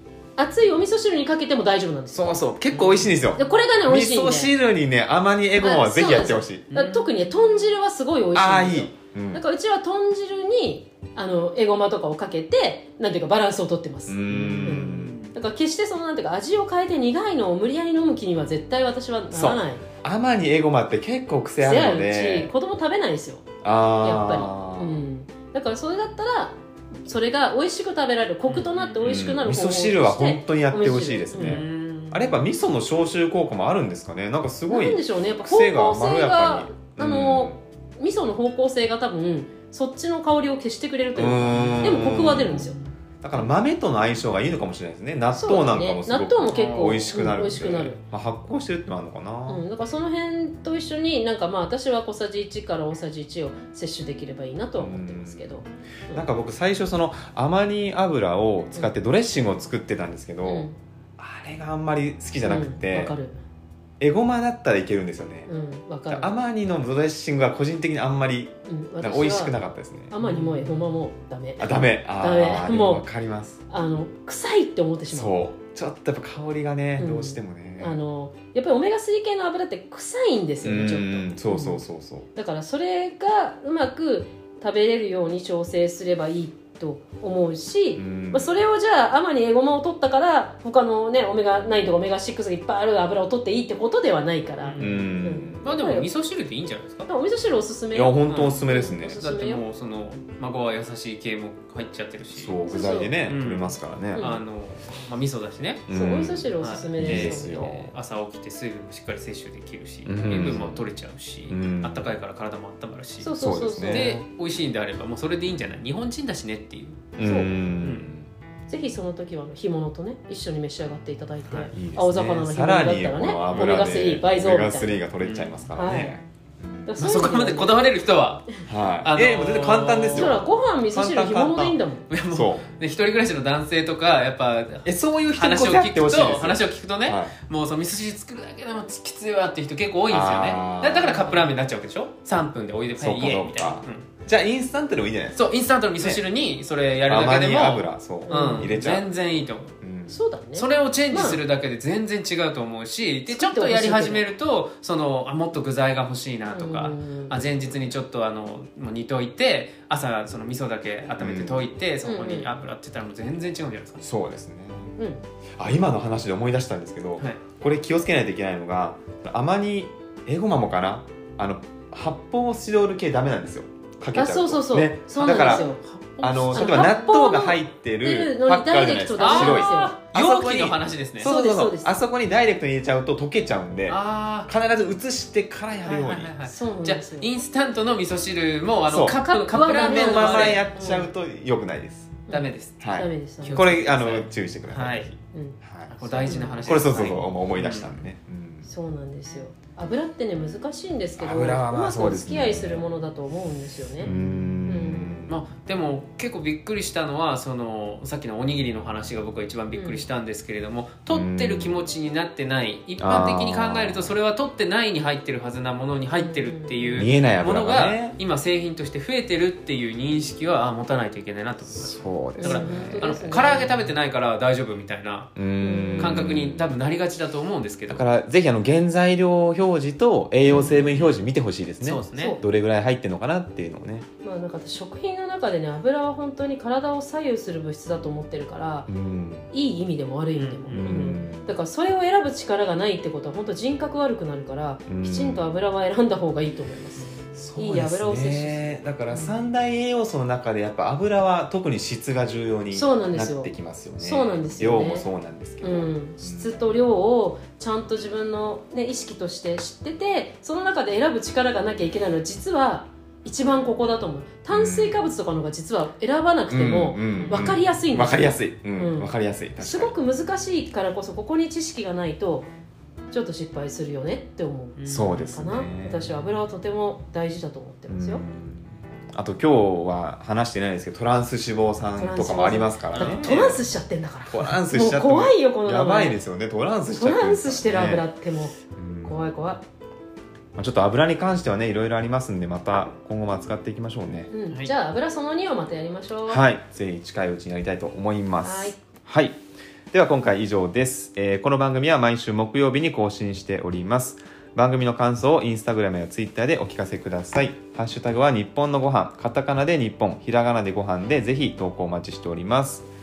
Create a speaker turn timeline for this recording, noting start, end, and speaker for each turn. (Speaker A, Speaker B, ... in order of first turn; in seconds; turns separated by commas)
Speaker A: 0.4-2.3, Speaker B: 2.1-6.7, Speaker C: 2.7-3.1, Speaker A: 3.4-4.5, Speaker A: 5.6-19.9, Speaker C: 6.7-7.5, Speaker B: 8.3-9.4, Speaker B: 14.1-15.2, Speaker C: 14.3-15.3, Speaker B: 19.3-22.5, Speaker A: 21.6-23.5, Speaker B: 23.6-25.0, Speaker A: 24.0-31.6, Speaker C: 28.5-29.0, Speaker B: 29.0-37.6, Speaker C: 31.4-32.4, Speaker A: 34.7-42.8, Speaker B: 41.1-49.6, Speaker A: 45.4-48.0, Speaker C: 46.5-47.0, Speaker A: 49.5-56.3, Speaker B: 54.8-55.5, Speaker B: 56.1-63.1, Speaker A: 60.4-60.8, Speaker A: 62.4-63.4, Speaker B: 64.0-65.5, Speaker A: 65.5-66.3, Speaker B: 66.1-70.1, Speaker A: 68.7-69.5, Speaker A: 70.1-73.0, Speaker C: 70.2-70.8, Speaker B: 71.6-73.6, Speaker A: 73.7-75.4, Speaker B: 75.1-78.0, Speaker A: 77.0-81.8, Speaker B: 80.6-82.3, Speaker A: 82.3-96.1, Speaker B: 88.0-88.5, Speaker C: 94.6-95.1, Speaker B: 94.8-95.7, Speaker C: 95.6-97.1, Speaker A: 97.1-99.6, Speaker B: 97.9-99.2, Speaker C: 98.3-102.6, Speaker B: 102.3-104.2, Speaker A: 102.7-103.1, Speaker C: 103.3-105.9, Speaker A: 104.2-104.4, Speaker B: 105.9-107.9, Speaker A: 105.9-107.8, Speaker C: 106.6-113.4, Speaker B: 110.1-110.9, Speaker B: 111.5-112.1, Speaker A: 113.2-114.1, Speaker B: 113.4-114.2, Speaker C: 113.9-117.1, Speaker B: 117.2-118.3, Speaker A: 117.2-117.5, Speaker C: 117.8-118.1, Speaker A: 118.7-125.0, Speaker B: 121.7-126.9, Speaker C: 125.2-125.5, Speaker A: 125.8-126.2, Speaker A: 126.9-127.8, Speaker C: 127.0-130.4, Speaker B: 128.7-131.8, Speaker A: 130.1-132.1, Speaker C: 132.1-144.1, Speaker B: 132.3-132.7, Speaker B: 134.9-137.3, Speaker B: 140.1-141.4, Speaker B: 143.0-145.4, Speaker C: 145.4-149.8, Speaker B: 147.1-149.1, Speaker A: 148.3-148.7, Speaker B: 149.8-150.2, Speaker A: 150.1-151.4, Speaker C: 150.6-164.0, Speaker A: 153.3-154.2, Speaker A: 156.5-157.4, Speaker B: 157.7-157.9, Speaker B: 161.2-161.7, Speaker A: 162.1-162.5, Speaker B: 164.0-165.0, Speaker B: 165.6-186.3, Speaker A: 174.2-175.8, Speaker C: 175.2-176.9, Speaker A: 176.5-179.9, Speaker C: 179.2-181.3, Speaker A: 181.2-182.0, Speaker C: 183.9-184.5, Speaker C: 185.8-191.0, Speaker A: 186.5-187.3, Speaker B: 188.9-189.2, Speaker A: 189.1-191.1, Speaker B: 189.7-192.2, Speaker A: 192.3-193.8, Speaker C: 192.3-192.8, Speaker B: 192.8-198.7, Speaker C: 193.4-195.1, Speaker A: 195.3-195.6, Speaker C: 195.9-197.9, Speaker A: 196.2-196.8, Speaker A: 198.7-204.1, Speaker B: 201.2-202.8, Speaker B: 204.0-205.4, Speaker A: 204.7-205.1, Speaker C: 205.3-225.4, Speaker A: 209.7-210.1, Speaker B: 211.1-211.8, Speaker B: 213.0-214.2, Speaker A: 216.2-217.1, Speaker B: 217.0-218.2, Speaker B: 221.7-223.3, Speaker A: 222.4-223.8, Speaker B: 225.4-226.7, Speaker A: 225.6-226.3, Speaker C: 226.0-228.0, Speaker B: 227.9-234.1, Speaker C: 230.5-231.2, Speaker C: 231.8-232.4, Speaker A: 232.2-232.4, Speaker A: 234.2-238.9, Speaker B: 238.9-239.5, Speaker A: 239.5-249.4, Speaker C: 240.4-241.1, Speaker B: 240.7-241.5, Speaker B: 244.9-245.4, Speaker B: 247.3-256.6, Speaker A: 252.7-255.1, Speaker A: 255.6-272.5, Speaker B: 264.5-265.0, Speaker B: 266.5-269.9, Speaker C: 267.1-267.5, Speaker A: 273.1-278.2, Speaker C: 274.8-275.2, Speaker B: 274.9-276.3, Speaker B: 277.9-283.7, Speaker A: 282.0-286.2, Speaker C: 282.9-283.3, Speaker B: 284.2-288.1, Speaker A: 286.9-289.6, Speaker B: 288.8-289.2, Speaker B: 290.6-294.3, Speaker A: 294.3-296.4, Speaker B: 296.3-299.4, Speaker A: 298.4-298.8, Speaker B: 299.9-312.9